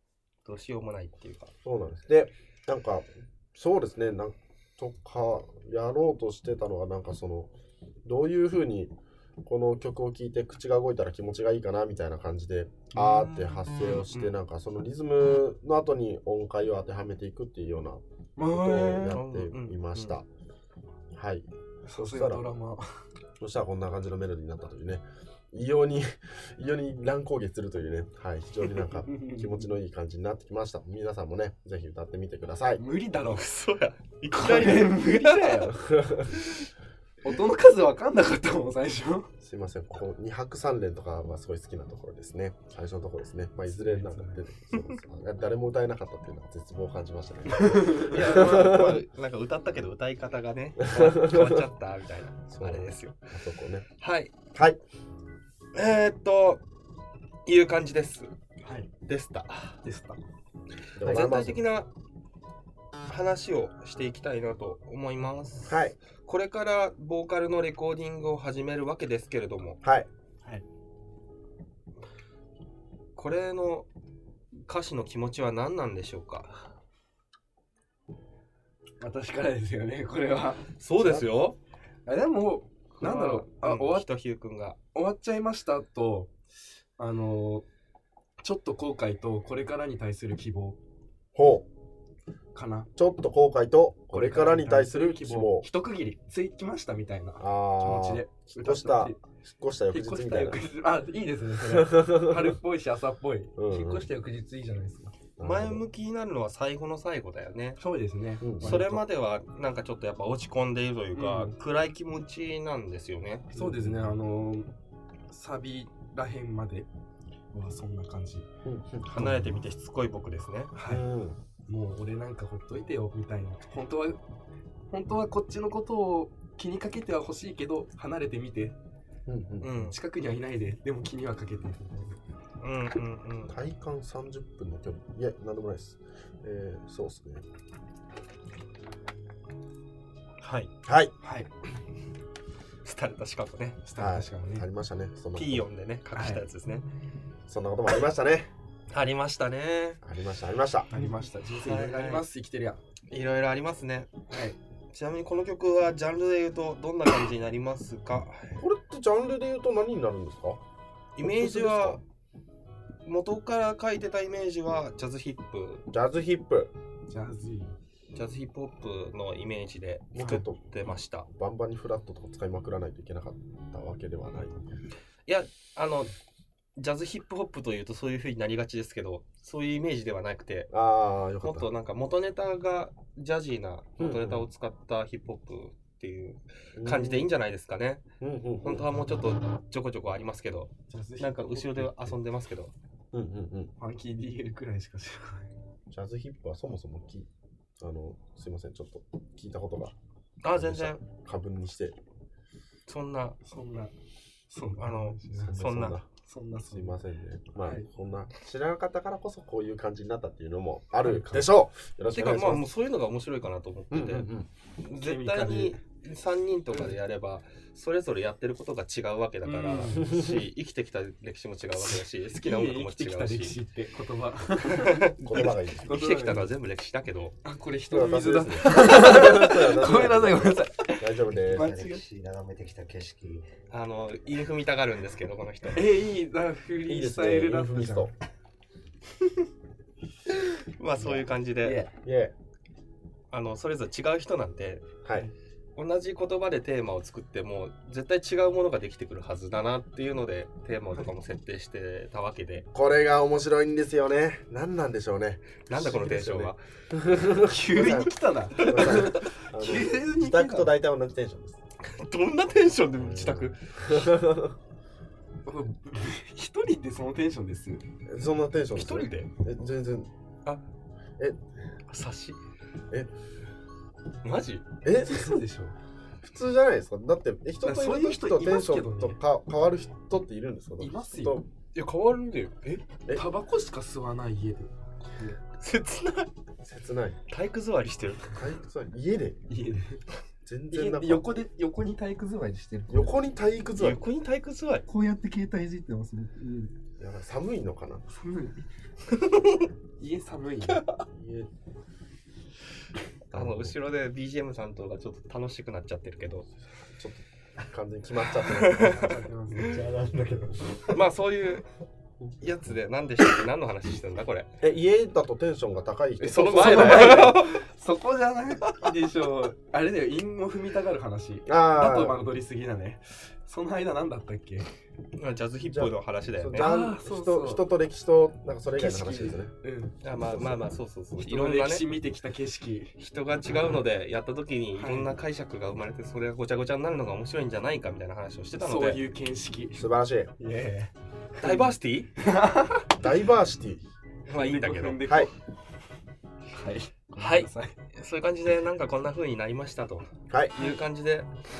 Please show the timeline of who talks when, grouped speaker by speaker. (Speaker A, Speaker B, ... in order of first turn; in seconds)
Speaker A: 0.4-1.5, 19.1-20.2, 33.2-35.7, 44.7-45.0, 48.0-53.2, 54.0-54.3, 55.7-56.6, 57.5-58.3, 59.0-59.8, 61.0-61.9, 63.1-69.8, 73.2-73.9, 74.7-76.7, 80.8-81.6, 83.0-84.8, 105.4-107.8, 108.6-113.5, 119.0-120.7, 129.6-129.9, 132.6-133.5, 140.4-140.7, 142.8-143.8, 145.3-146.9, 148.9-150.0, 151.6-152.2, 153.1-154.1, 154.9-158.6, 161.2-162.0, 163.1-165.8, 168.1-171.3, 175.2-176.1, 176.8-180.7, 181.4-188.0, 188.6-192.7, 200.4-201.0, 202.9-203.4, 204.8-206.0, 212.1-223.6, 224.8-227.3, 233.7-235.8, 240.8-241.8, 243.3-244.9, 245.8-252.7, 255.7-256.6, 258.6-259.1, 261.9-264.1, 268.7-269.3, 271.9-272.4, 274.2-274.7, 285.6-286.3, 287.3-288.4, 293.7-294.8, 299.2-299.7, 303.3-306.5, 308.4-309.1, 310.9-311.6, 312.4-314.5, 316.3-317.6, 318.6-318.9, 325.1-326.7, 330.0-331.8, 333.0-339.0, 341.4-342.1, 344.3-345.0, 347.2-351.3
Speaker B: 1.6-7.5, 8.0-8.9, 9.4-20.2, 21.1-22.5, 23.4-32.8, 35.8-36.4, 39.4-49.0, 50.8-51.6, 52.5-53.9, 54.5-54.8, 61.0-61.6, 65.7-66.0, 69.8-70.1, 81.0-81.3, 91.3-91.7, 93.0-95.7, 97.4-100.6, 101.6-102.6, 103.6-104.1, 105.4-105.8, 108.4-108.8, 113.5-114.1, 118.6-119.1, 120.8-121.4, 129.3-129.8, 133.5-137.4, 140.8-141.1, 143.9-145.7, 147.5-148.5, 150.0-150.9, 158.6-160.6, 161.2-162.0, 165.9-166.7, 170.1-170.6, 171.3-174.6, 180.7-181.7, 184.0-184.5, 186.8-187.3, 188.2-188.9, 193.1-193.7, 195.9-197.3, 197.8-199.9, 200.5-202.0, 205.4-206.1, 206.7-212.7, 213.9-214.5, 219.9-220.4, 225.2-225.9, 227.9-231.7, 236.9-238.1, 242.0-242.3, 245.0-245.3, 252.7-255.5, 256.9-261.6, 262.9-264.6, 268.1-270.1, 274.8-275.4, 276.2-281.4, 286.6-287.2, 288.3-289.4, 290.4-291.3, 292.9-294.0, 297.0-298.1, 301.0-301.5, 303.3-303.8, 306.8-309.0, 314.6-317.3, 321.4-322.2, 325.7-329.5, 339.7-340.3, 342.9-343.8, 345.0-345.3, 350.3-350.5
Speaker C: 13.0-14.3, 18.4-19.2, 21.8-22.9, 29.1-29.7, 32.8-33.5, 34.3-36.5, 37.2-39.3, 43.7-44.4, 47.5-48.1, 58.6-58.9, 59.8-60.2, 79.0-80.6, 82.0-84.0, 84.9-86.3, 87.0-87.6, 88.4-90.8, 92.5-92.9, 94.1-99.2, 99.9-105.1, 107.8-109.0, 111.2-111.5, 113.5-114.7, 115.3-116.9, 117.5-118.5, 119.2-119.5, 120.7-121.0, 121.7-124.2, 124.9-128.7, 129.8-132.2, 141.2-141.5, 143.8-144.7, 146.2-146.4, 150.9-152.8, 154.3-154.6, 167.1-167.7, 190.9-192.2, 193.8-195.5, 203.4-203.9, 204.5-205.5, 206.2-207.0, 211.0-211.5, 215.0-215.8, 216.7-217.0, 219.4-220.0, 221.8-226.5, 227.4-232.0, 235.7-238.1, 241.0-241.9, 255.7-256.5, 257.4-260.7, 265.4-267.8, 275.0-275.7, 277.6-279.2, 280.8-285.4, 289.5-290.0, 290.7-293.1, 294.9-296.7, 298.1-298.6, 300.0-300.9, 308.6-309.9, 316.2-324.7, 326.6-327.7, 328.7-330.0, 331.2-332.9, 334.8-335.1, 338.5-339.9, 340.4-342.9, 344.3-345.3, 346.5-347.8
Speaker D: 231.3-233.4, 309.5-311.0